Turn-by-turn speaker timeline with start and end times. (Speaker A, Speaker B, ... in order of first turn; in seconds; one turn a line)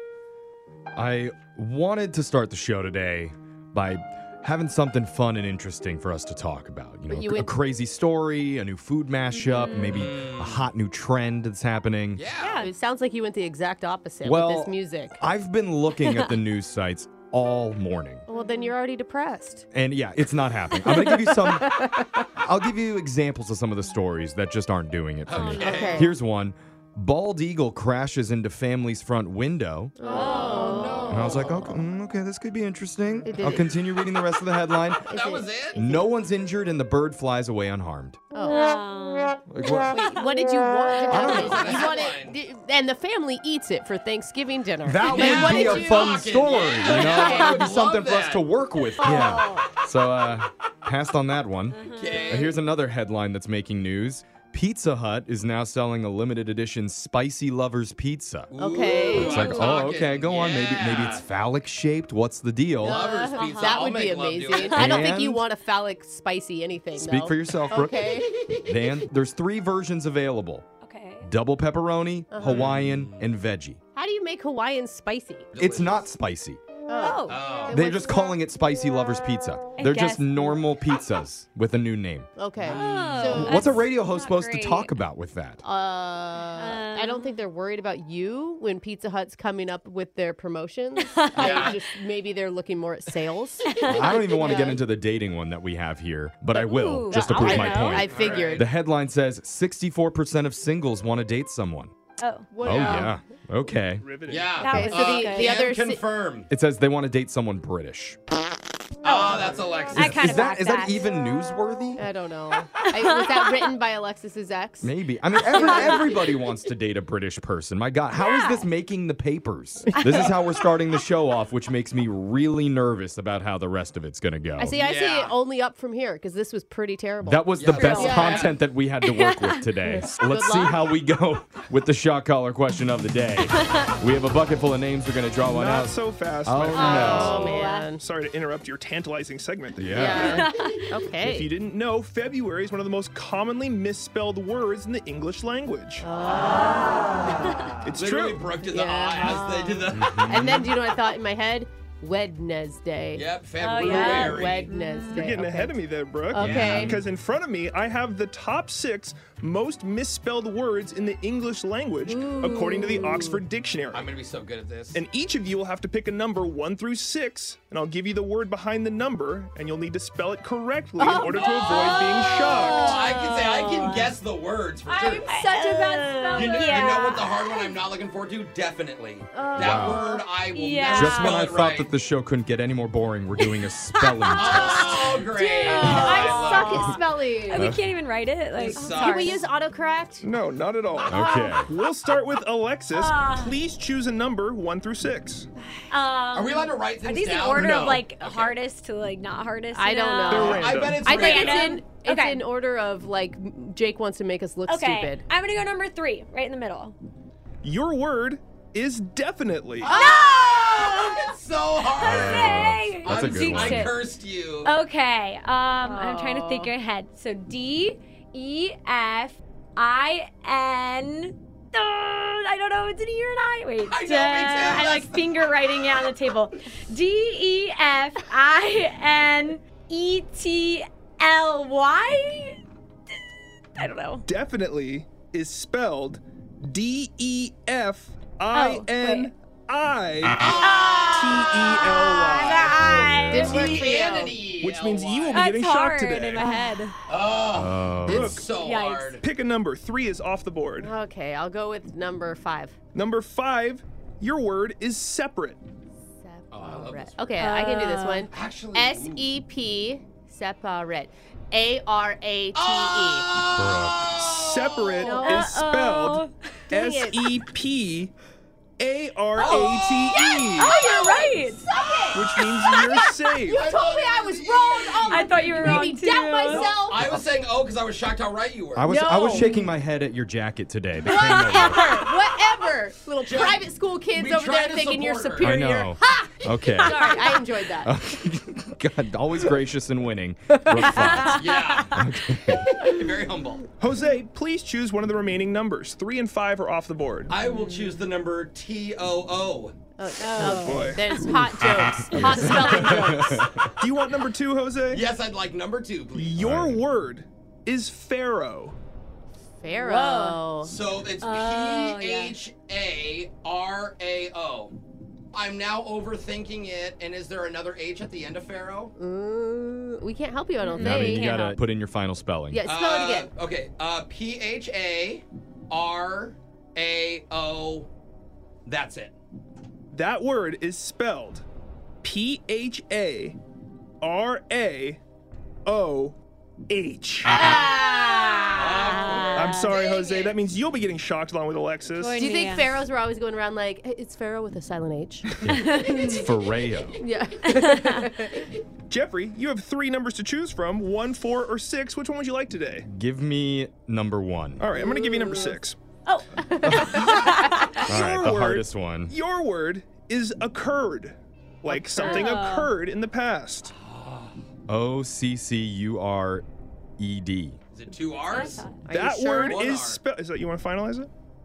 Speaker A: 0.9-12.2
Speaker B: 7.1-7.5
Speaker C: 9.4-9.9
Speaker D: 9.8-10.7
Speaker D: 12.2-12.6
Speaker C: 12.4-12.7
Speaker B: 12.6-15.2
Speaker A: 14.2-18.2
Speaker B: 18.3-19.6
Speaker C: 18.4-18.7
Speaker A: 19.7-30.0
Speaker B: 20.9-22.2
Speaker D: 25.3-26.1
Speaker C: 25.3-25.9
Speaker B: 25.6-26.1
Speaker B: 30.0-31.6
Speaker C: 30.0-31.4
Speaker D: 30.3-31.3
Speaker A: 31.1-35.1
Speaker B: 33.3-33.8
Speaker B: 35.1-36.1
Speaker D: 35.1-35.8
Speaker A: 35.8-38.2
Speaker B: 38.3-38.7
Speaker C: 38.5-39.4
Speaker A: 39.5-40.0
Speaker B: 39.8-46.3
Speaker A: 41.1-41.6
Speaker D: 41.1-42.4
Speaker A: 44.8-58.5
Speaker D: 45.0-48.5
Speaker B: 46.9-47.6
Speaker B: 49.0-49.7
Speaker C: 51.8-52.2
Speaker D: 51.9-52.6
Speaker D: 58.5-61.2
Speaker B: 58.5-59.6
Speaker A: 59.4-63.0
Speaker D: 62.8-65.0
Speaker B: 62.8-68.6
Speaker C: 63.0-63.8
Speaker A: 64.8-65.4
Speaker A: 67.0-70.7
Speaker C: 70.8-71.3
Speaker A: 71.2-73.8
Speaker B: 72.3-72.7
Speaker D: 72.4-73.3
Speaker B: 74.0-75.5
Speaker D: 75.5-76.1
Speaker A: 75.6-76.6
Speaker B: 76.9-78.3
Speaker C: 77.0-77.4
Speaker D: 77.3-77.8
Speaker A: 77.8-82.3
Speaker C: 79.8-80.6
Speaker B: 82.4-83.8
Speaker D: 82.7-83.3
Speaker C: 82.7-85.0
Speaker A: 83.4-85.6
Speaker B: 85.6-94.5
Speaker C: 86.5-87.4
Speaker C: 91.0-91.8
Speaker D: 91.3-91.8
Speaker C: 93.6-94.8
Speaker A: 93.9-101.9
Speaker C: 96.5-98.0
Speaker B: 97.1-98.7
Speaker D: 97.9-98.7
Speaker C: 102.2-103.1
Speaker B: 102.5-103.1
Speaker A: 102.6-104.1
Speaker E: 104.0-104.7
Speaker D: 104.3-106.5
Speaker C: 104.6-105.6
Speaker B: 104.6-106.1
Speaker A: 106.5-108.2
Speaker D: 109.0-110.4
Speaker C: 109.1-109.4
Speaker C: 109.9-111.1
Speaker A: 110.2-112.0
Speaker B: 112.0-116.4
Speaker A: 114.8-124.7
Speaker C: 118.3-118.6
Speaker B: 119.9-120.3
Speaker B: 124.6-128.5
Speaker D: 124.8-125.3
Speaker A: 127.2-137.3
Speaker D: 127.6-128.6
Speaker C: 127.7-128.4
Speaker C: 129.0-130.0
Speaker B: 130.1-130.9
Speaker E: 135.4-140.5
Speaker C: 136.8-137.9
Speaker B: 136.8-138.0
Speaker A: 139.8-140.4
Speaker B: 139.9-141.5
Speaker C: 140.2-140.9
Speaker E: 141.2-146.0
Speaker B: 146.0-147.3
Speaker D: 147.7-150.6
Speaker E: 147.8-148.5
Speaker B: 148.6-153.3
Speaker A: 150.0-150.6
Speaker D: 153.1-154.7
Speaker C: 153.6-155.2
Speaker B: 153.8-155.7
Speaker E: 155.1-164.1
Speaker B: 156.3-157.0
Speaker D: 156.3-156.9
Speaker B: 162.1-163.4
Speaker D: 163.9-165.0
Speaker E: 164.9-173.1
Speaker B: 171.0-171.3
Speaker D: 171.3-175.4
Speaker C: 171.7-174.2
Speaker B: 174.9-177.1
Speaker C: 175.0-177.8
Speaker D: 176.3-181.9
Speaker B: 179.3-180.3
Speaker A: 179.6-180.0
Speaker C: 180.5-181.5
Speaker A: 180.9-184.9
Speaker C: 183.4-189.4
Speaker D: 184.4-186.9
Speaker B: 185.4-187.7
Speaker A: 187.6-187.8
Speaker D: 188.6-189.4
Speaker B: 188.6-190.2
Speaker E: 190.2-195.5
Speaker D: 191.0-191.3
Speaker A: 191.1-191.7
Speaker C: 191.2-191.5
Speaker C: 192.9-193.6
Speaker C: 195.9-202.4
Speaker D: 196.3-198.6
Speaker B: 199.7-205.2
Speaker E: 200.3-201.1
Speaker D: 200.5-201.8
Speaker C: 204.7-207.0
Speaker E: 207.6-209.9
Speaker C: 209.8-211.3
Speaker B: 209.9-210.2
Speaker D: 209.9-214.7
Speaker C: 211.8-214.0
Speaker A: 212.0-213.9
Speaker C: 214.6-232.6
Speaker B: 215.8-216.7
Speaker D: 223.9-225.3
Speaker C: 233.8-234.2
Speaker E: 234.3-243.8
Speaker C: 238.5-239.3
Speaker D: 240.4-241.1
Speaker C: 240.6-243.6
Speaker B: 243.3-244.4
Speaker D: 243.4-245.5
Speaker E: 244.6-246.5
Speaker C: 245.3-246.9
Speaker D: 247.1-249.2
Speaker A: 247.6-248.4
Speaker E: 248.1-248.5
Speaker C: 248.6-249.2
Speaker E: 249.2-250.9
Speaker B: 250.8-252.8
Speaker E: 252.9-255.6
Speaker B: 256.2-263.3
Speaker D: 256.5-257.4
Speaker C: 257.4-258.3
Speaker D: 258.3-259.3
Speaker D: 262.5-265.0
Speaker A: 263.6-264.0
Speaker E: 264.1-268.1
Speaker C: 265.0-266.3
Speaker B: 265.0-265.5
Speaker B: 266.7-267.4
Speaker E: 268.8-270.8
Speaker C: 269.4-273.1
Speaker B: 270.6-272.2
Speaker E: 272.1-273.7
Speaker B: 273.4-277.1
Speaker D: 273.5-275.8
Speaker C: 275.1-276.7
Speaker D: 276.5-278.9
Speaker A: 278.8-282.0
Speaker B: 278.9-279.6
Speaker B: 281.0-287.9
Speaker C: 281.1-282.0
Speaker D: 283.2-285.6
Speaker A: 285.4-291.4
Speaker C: 286.8-287.1
Speaker C: 290.9-291.8
Speaker D: 291.2-293.7
Speaker A: 291.9-292.6
Speaker E: 293.8-297.4
Speaker D: 297.3-299.8
Speaker C: 297.5-297.9
Speaker B: 300.0-303.5
Speaker C: 300.2-301.1
Speaker E: 300.4-301.8
Speaker A: 302.4-303.7
Speaker D: 302.6-303.0
Speaker E: 303.8-305.1
Speaker D: 304.9-306.5
Speaker E: 306.1-308.8
Speaker A: 306.4-306.8
Speaker B: 309.6-310.7
Speaker C: 309.7-310.5
Speaker D: 310.6-314.8
Speaker C: 311.2-312.4
Speaker D: 315.3-318.9
Speaker B: 319.0-321.4
Speaker C: 320.6-321.6
Speaker A: 320.8-322.7
Speaker B: 322.5-323.3
Speaker D: 322.6-327.9
Speaker D: 328.7-329.1
Speaker E: 329.9-331.4
Speaker E: 332.0-333.4
Speaker E: 334.0-335.0
Speaker E: 335.7-336.2
Speaker E: 336.7-337.4
Speaker C: 337.4-339.6
Speaker D: 338.5-340.3
Speaker E: 339.3-342.2
Speaker C: 341.9-342.7
Speaker B: 342.1-346.2
Speaker C: 345.5-346.3
Speaker A: 346.2-347.0
Speaker B: 347.0-348.5
Speaker C: 347.5-348.0
Speaker E: 348.9-352.9
Speaker A: 352.9-354.6
Speaker E: 354.6-355.8
Speaker C: 354.9-355.6
Speaker C: 356.1-357.9
Speaker E: 356.9-357.4
Speaker E: 357.9-363.7
Speaker A: 357.9-359.1
Speaker C: 361.8-362.7
Speaker D: 363.8-364.3
Speaker A: 364.7-366.5
Speaker A: 367.0-367.6
Speaker D: 367.7-368.7
Speaker C: 368.3-368.8
Speaker B: 368.9-369.6
Speaker E: 368.9-371.1
Speaker D: 369.4-370.0